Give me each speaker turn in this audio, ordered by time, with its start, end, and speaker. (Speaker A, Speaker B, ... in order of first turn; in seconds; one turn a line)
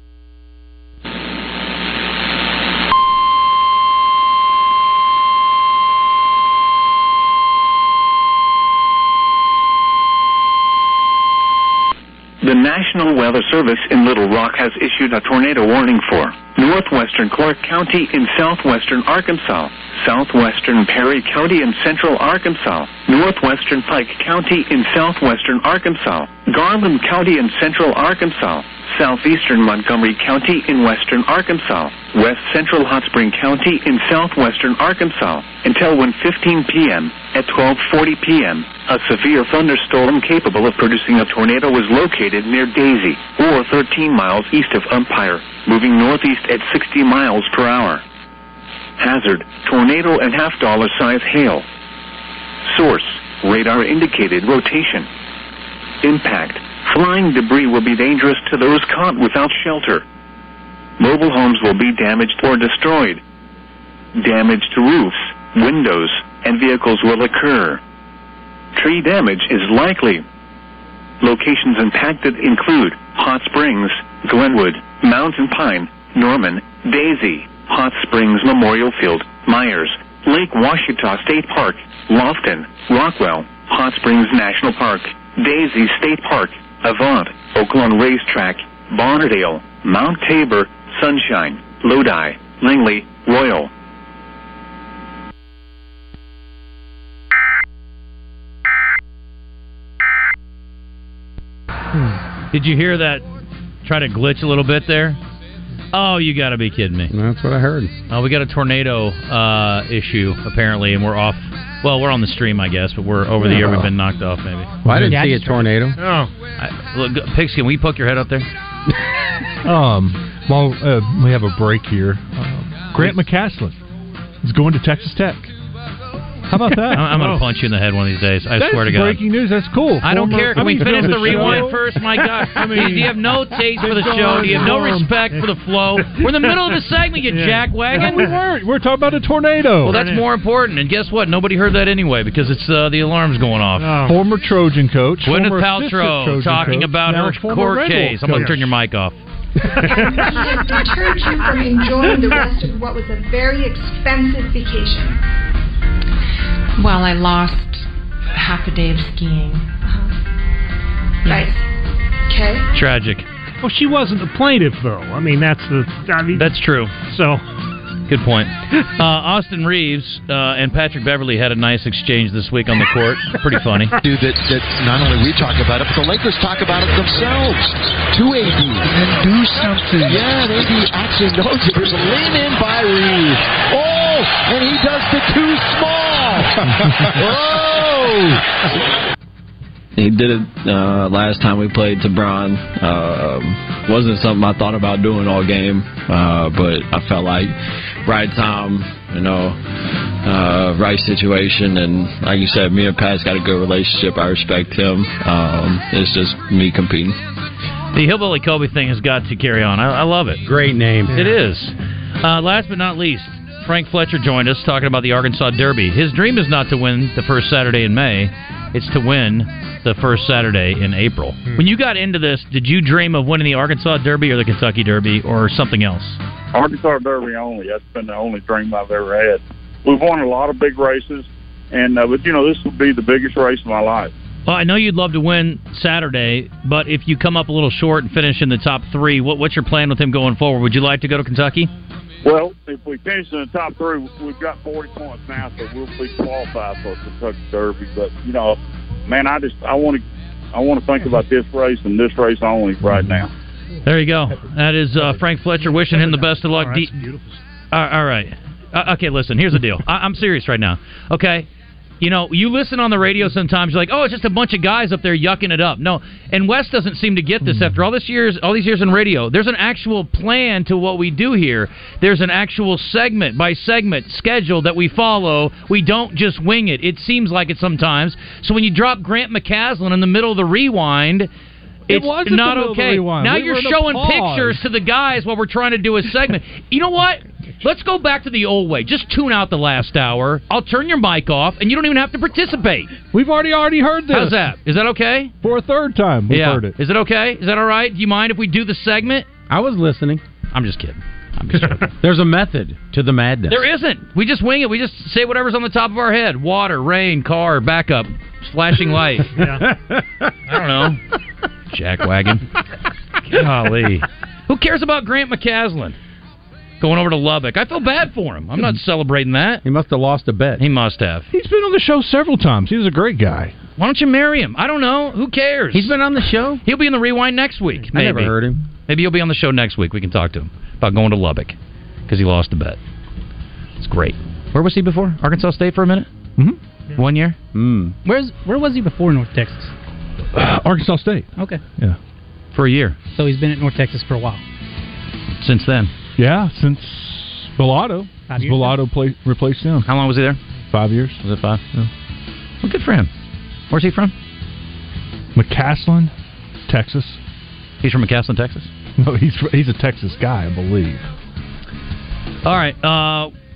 Speaker A: 12.4-48.0
Speaker A: 49.0-51.7
Speaker A: 52.7-55.1
Speaker A: 56.0-60.0
Speaker A: 61.0-63.2
Speaker A: 64.2-67.8
Speaker A: 68.8-70.2
Speaker A: 71.2-93.7
Speaker B: 102.5-103.2
Speaker B: 103.8-105.2
Speaker B: 105.9-107.1
Speaker C: 107.1-107.9
Speaker B: 108.1-114.7
Speaker C: 113.4-113.9
Speaker C: 114.8-116.0
Speaker D: 114.9-115.7
Speaker E: 116.0-116.3
Speaker B: 116.6-118.5
Speaker F: 119.7-123.8
Speaker F: 124.4-125.5
Speaker F: 126.5-127.4
Speaker B: 126.8-129.3
Speaker F: 128.6-131.9
Speaker B: 130.0-138.3
Speaker F: 132.6-135.1
Speaker E: 132.7-133.0
Speaker E: 136.0-136.5
Speaker E: 137.3-138.3
Speaker F: 137.9-140.0
Speaker B: 139.8-144.0
Speaker E: 139.8-140.2
Speaker E: 143.8-144.2
Speaker F: 144.1-148.7
Speaker B: 145.2-149.2
Speaker E: 148.3-148.6
Speaker E: 149.8-150.5
Speaker G: 149.8-155.2
Speaker H: 156.8-159.7
Speaker G: 159.8-160.1
Speaker H: 161.2-161.5
Speaker G: 161.2-161.7
Speaker G: 162.3-162.7
Speaker B: 162.7-163.3
Speaker E: 163.6-167.4
Speaker B: 166.3-166.9
Speaker B: 168.1-174.0
Speaker I: 174.0-188.4
Speaker J: 190.0-199.6
Speaker J: 200.2-207.2
Speaker B: 207.9-210.4
Speaker C: 210.4-211.2
Speaker B: 211.1-226.2
Speaker K: 226.5-234.1
Speaker B: 234.5-241.7
Speaker K: 242.2-250.0
Speaker K: 250.5-253.3
Speaker B: 253.8-257.0
Speaker E: 255.9-257.4
Speaker B: 257.7-261.5
Speaker B: 262.0-281.3
Speaker F: 281.9-284.6
Speaker B: 281.9-293.0
Speaker F: 293.1-294.5
Speaker B: 294.1-295.3
Speaker F: 295.4-296.7
Speaker B: 296.3-299.3
Speaker C: 299.5-300.2
Speaker B: 300.5-301.9
Speaker C: 302.0-303.6
Speaker B: 303.5-309.4
Speaker E: 309.4-309.6
Speaker C: 309.7-310.0
Speaker B: 310.5-311.0
Speaker B: 311.7-312.4
Speaker B: 313.3-316.0
Speaker B: 316.8-319.6
Speaker C: 319.6-320.6
Speaker B: 320.6-321.3
Speaker F: 321.3-323.5
Speaker B: 323.8-326.0
Speaker C: 325.7-326.6
Speaker B: 326.6-331.6
Speaker C: 327.9-328.6
Speaker B: 332.1-332.8
Speaker B: 333.8-336.1
Speaker B: 337.0-337.4
Speaker C: 337.5-337.9
Speaker D: 338.0-339.7
Speaker F: 340.3-342.0
Speaker D: 341.4-341.6
Speaker B: 342.5-343.0
Speaker D: 343.2-344.4
Speaker B: 345.4-345.9
Speaker F: 346.2-349.9
Speaker D: 348.3-348.8
Speaker B: 349.9-350.4
Speaker F: 350.7-351.2
Speaker B: 351.2-351.6
Speaker B: 352.6-353.1
Speaker B: 353.7-354.1
Speaker F: 355.4-356.1
Speaker F: 356.7-357.2
Speaker B: 357.8-358.7
Speaker F: 359.0-361.1
Speaker B: 362.4-363.3